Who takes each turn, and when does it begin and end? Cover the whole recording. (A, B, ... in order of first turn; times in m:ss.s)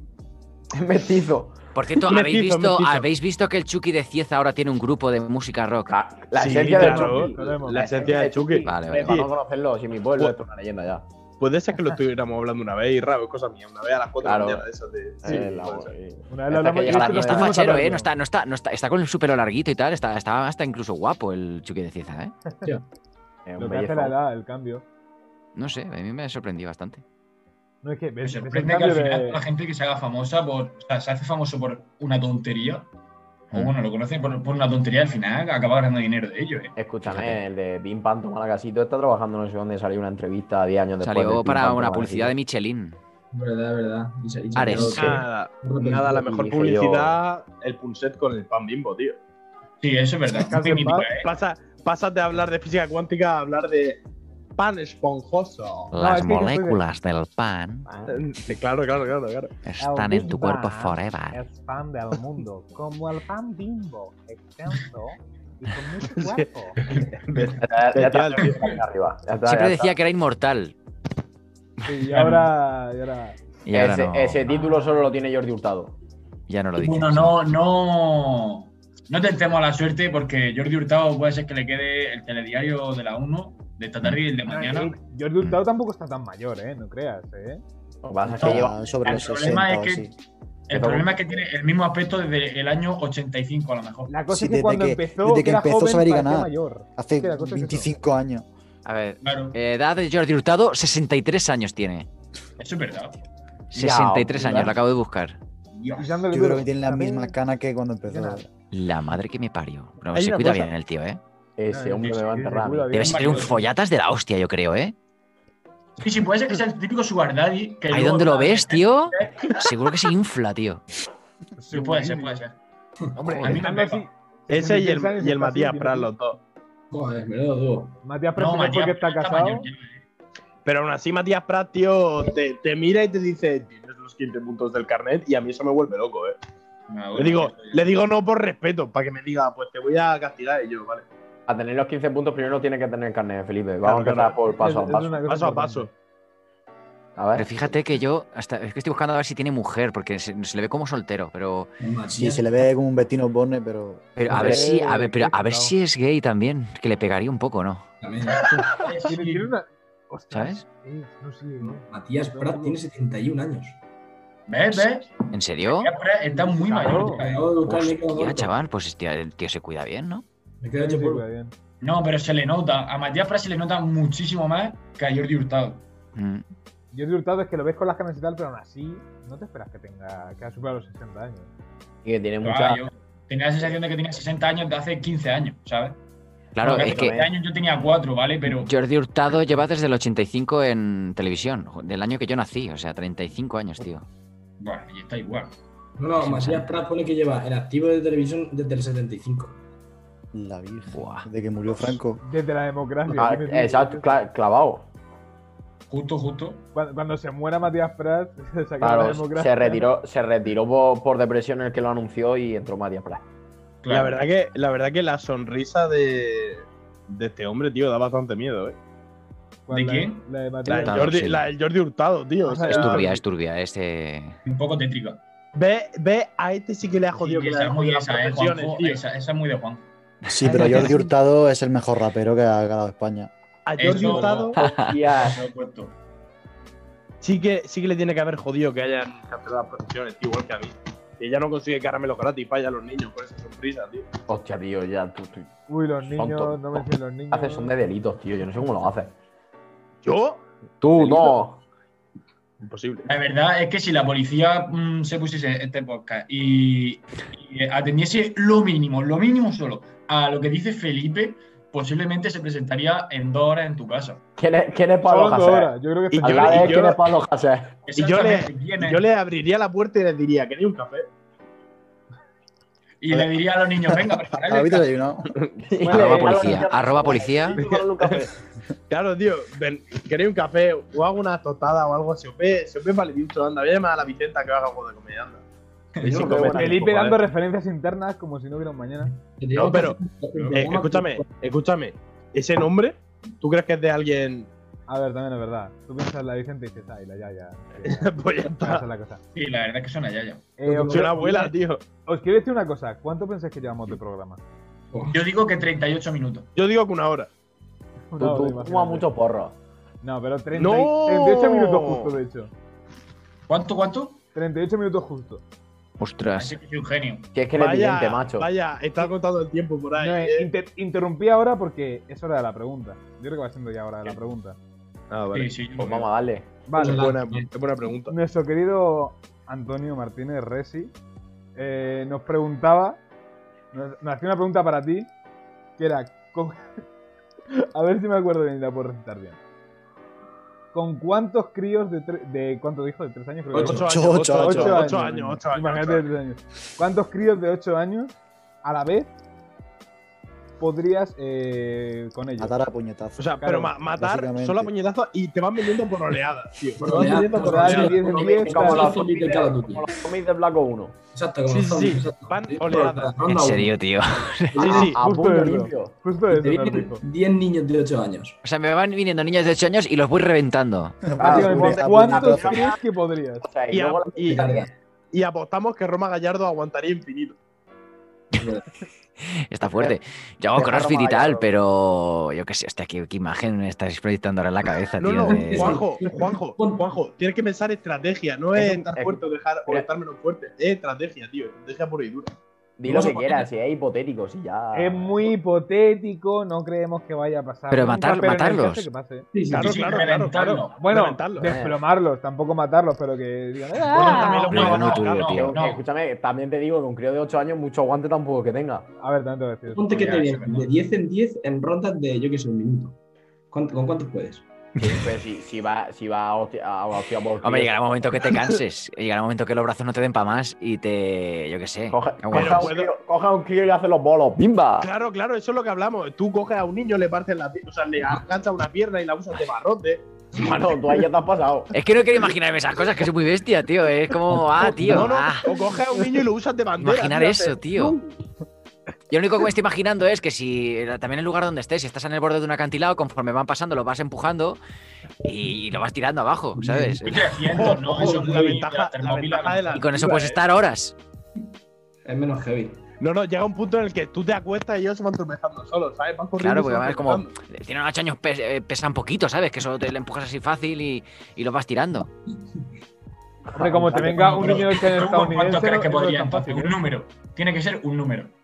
0:00.7-0:01.6 A
0:01.7-0:06.0 B
0:02.1-0:03.0 C
0:05.9-0:11.0 A
0:06.3-0:09.3 C
0:06.7-0:08.2 D
0:08.6-0:09.1 B
0:11.4-0:15.9 C
0:14.2-0:14.6 A
0:15.2-0:17.8 A
0:16.3-0:18.1 D
0:16.9-0:22.3 B
0:23.4-0:24.2 A
0:23.6-0:24.8 D
0:25.5-0:27.0 B
0:27.8-0:29.4 D
0:28.2-0:32.9 E
0:33.5-0:36.7 E
0:36.8-0:42.3 A
0:37.0-0:37.4 B
0:41.0-0:43.0 B
0:43.3-0:46.2 F
0:44.5-0:45.2 B
0:44.7-0:49.2 C
0:45.8-0:47.2 A
0:49.8-0:51.3 E
0:50.3-0:51.1 D
0:51.2-0:54.0 C
0:54.6-0:55.9 C
0:55.9-0:56.8 D
0:55.9-0:57.9 B
0:57.9-0:58.2 A
0:58.1-0:59.5 C
0:59.6-1:01.4 B
0:59.8-1:06.8 D
1:06.2-1:08.6 C
1:07.6-1:09.9 A
1:08.4-1:08.8 E
1:09.4-1:10.7 B
1:11.8-1:13.4 D
1:12.1-1:12.5 E
1:13.6-1:14.5 B
1:13.7-1:15.9 A
1:16.5-1:17.3 B
1:16.8-1:24.9 E
1:24.5-1:27.6 D
1:28.0-1:28.9 A
1:28.3-1:30.1 G
1:28.4-1:30.1 E
1:30.7-1:34.1 E
1:30.7-1:31.2 A
1:34.1-1:37.9 D
1:34.3-1:38.5 G
1:38.8-1:42.1 B
1:39.2-1:39.6 E
1:42.6-1:43.2 E
1:43.7-1:45.4 B
1:43.7-1:44.8 A
1:45.7-1:46.1 E
1:45.9-1:47.4 D
1:46.3-1:48.5 G
1:48.0-1:48.5 D
1:48.7-1:51.2 B
1:50.1-1:50.7 C
1:51.6-1:53.0 A
1:51.7-1:53.5 D
1:52.0-1:52.3 E
1:52.9-1:54.9 B
1:53.0-1:53.6 E
1:56.0-1:59.5 E
1:57.9-2:00.8 B
2:01.6-2:02.4 D
2:01.7-2:02.6 E
2:03.2-2:03.6 C
2:03.2-2:03.6 B
2:03.4-2:04.1 E
2:03.5-2:06.1 D
2:04.5-2:06.4 C
2:06.9-2:08.0 F
2:08.0-2:09.7 D
2:08.4-2:10.0 E
2:10.6-2:16.4 C
2:16.9-2:17.9 E
2:17.2-2:21.1 C
2:21.5-2:25.2 A
2:23.8-2:24.4 C
2:24.5-2:25.9 D
2:25.3-2:25.9 C
2:27.2-2:27.8 A
2:27.4-2:31.7 B
2:31.8-2:32.6 F
2:32.1-2:34.2 G
2:34.2-2:37.8 B
2:34.3-2:35.7 D
2:34.3-2:34.6 A
2:38.0-2:38.6 F
2:38.5-2:42.8 D
2:38.8-2:39.5 E
2:40.3-2:40.6 B
2:41.6-2:43.8 F
2:44.5-2:47.5 E
2:45.3-2:45.9 B
2:46.3-2:47.2 D
2:46.6-2:48.5 F
2:47.6-2:50.2 B
2:50.6-2:51.2 F
2:50.8-2:51.5 D
2:51.8-2:55.8 E
2:56.2-2:56.4 B
2:56.9-3:01.5 D
3:02.0-3:02.8 A
3:02.4-3:06.0 E
3:06.5-3:07.2 B
3:06.6-3:08.7 E
3:06.8-3:07.3 A
3:08.4-3:14.0 B
3:14.6-3:15.5 E
3:16.0-3:19.6 F
3:16.2-3:16.8 B
3:20.3-3:22.2 G
3:20.9-3:21.2 B
3:22.2-3:24.2 D
3:23.1-3:24.9 A
3:25.9-3:26.6 E
3:26.7-3:29.9 D
3:28.8-3:33.2 A
3:33.8-3:34.2 E
3:33.9-3:38.8 C
3:39.7-3:41.2 D
3:39.7-3:40.2 E
3:40.6-3:43.2 C
3:40.7-3:41.5 B
3:42.4-3:43.0 D
3:42.7-3:44.4 B
3:44.4-3:45.2 E
3:45.5-3:49.0 C
3:47.2-3:49.9 E
3:50.3-3:53.3 G
3:50.4-3:51.0 B
3:50.5-3:51.0 F
3:53.6-3:54.6 C
3:53.8-3:55.9 E
3:54.6-3:54.9 B
3:54.6-3:55.4 A
3:57.2-4:04.1 C
4:04.3-4:05.5 A
4:05.7-4:07.7 D
4:06.2-4:09.1 A
4:10.0-4:10.4 C
4:10.8-4:11.6 A
4:11.0-4:11.4 C
4:12.6-4:13.1 C
4:13.0-4:24.2 E
4:24.4-4:27.8 A
4:25.0-4:26.8 D
4:26.1-4:27.1 C
4:27.8-4:29.0 E
4:27.9-4:31.1 C
4:33.0-4:34.9 E
4:34.4-4:35.3 G
4:35.4-4:38.3 A
4:35.8-4:36.6 D
4:35.9-4:37.6 B
4:38.9-4:45.4 C
4:45.9-4:46.4 E
4:46.0-4:47.2 C
4:46.1-4:46.8 A
4:46.5-4:49.1 D
4:49.0-4:51.3 F
4:49.5-4:54.5 C
4:54.9-4:59.2 D
4:57.8-4:58.8 C
4:59.3-5:00.6 E
5:00.6-5:01.5 D
5:00.7-5:01.5 F
5:00.9-5:01.8 C
5:02.0-5:04.4 D
5:04.9-5:05.2 F
5:05.1-5:06.5 E
5:06.6-5:07.3 C
5:08.1-5:09.1 D
5:08.2-5:09.6 A
5:10.0-5:12.5 D
5:10.5-5:12.1 C
5:13.5-5:14.2 E
5:14.3-5:15.4 D
5:16.0-5:16.6 B
5:16.3-5:17.3 E
5:17.3-5:18.5 A
5:17.5-5:20.5 C
5:20.0-5:24.6 D
5:25.1-5:26.1 C
5:25.3-5:25.9 E
5:25.8-5:26.5 A
5:26.7-5:27.1 D
5:26.7-5:27.5 F
5:26.8-5:28.1 C
5:28.1-5:30.9 D
5:31.6-5:33.0 D
5:33.7-5:35.1 D
5:35.8-5:36.7 D
5:37.5-5:39.4 D
5:40.7-5:49.1 D
5:43.5-5:43.9 F
5:43.6-5:46.1 C
5:43.6-5:45.1 G
5:50.6-5:52.5 D
5:52.4-5:54.7 G
5:53.2-5:59.0 C
5:56.8-5:59.9 F
5:57.3-5:58.9 D
5:58.4-6:01.0 A
6:01.1-6:03.8 F
6:01.5-6:03.2 C
6:03.2-6:04.9 B
6:04.5-6:05.0 C
6:04.6-6:05.9 A
6:04.6-6:04.9 F
6:05.0-6:07.0 D
6:06.3-6:08.4 F
6:08.4-6:11.0 B
6:11.0-6:12.6 G
6:11.2-6:12.8 A
6:11.2-6:13.5 D
6:13.4-6:14.7 A
6:13.7-6:14.4 C
6:14.2-6:14.7 F
6:15.1-6:17.4 C
6:18.4-6:18.7 F
6:19.2-6:25.8 B
6:19.6-6:20.0 A
6:20.6-6:21.5 A
6:25.0-6:32.3 C
6:25.2-6:27.0 F
6:28.5-6:29.9 A
6:32.8-6:35.3 A
6:32.8-6:33.5 E
6:34.7-6:39.3 D
6:37.7-6:38.9 B
6:39.3-6:40.1 F
6:39.5-6:41.5 C
6:39.6-6:40.9 E
6:40.2-6:44.4 D
6:41.4-6:41.8 A
6:43.8-6:45.5 C
6:44.0-6:45.5 B
6:44.2-6:45.8 E
6:45.2-6:48.9 A
6:49.0-6:50.1 D
6:49.7-6:53.0 F
6:49.9-6:50.7 E
6:53.5-6:54.4 F
6:54.8-6:55.0 B
6:54.8-6:57.7 A
6:57.4-7:02.7 B
7:01.9-7:04.9 A
7:02.3-7:02.9 C
7:04.8-7:10.4 C
7:10.3-7:11.7 A
7:11.7-7:15.5 B
7:14.6-7:15.0 D
7:14.7-7:18.1 C
7:16.8-7:18.0 B
7:19.1-7:24.6 B
7:25.2-7:27.4 B
7:26.6-7:28.5 F
7:27.0-7:29.9 E
7:27.5-7:30.4 C
7:29.7-7:30.9 B
7:32.0-7:32.8 F
7:33.0-7:37.3 C
7:36.4-7:42.1 B
7:43.5-7:44.7 A
7:43.6-7:46.7 D
7:44.2-7:48.3 E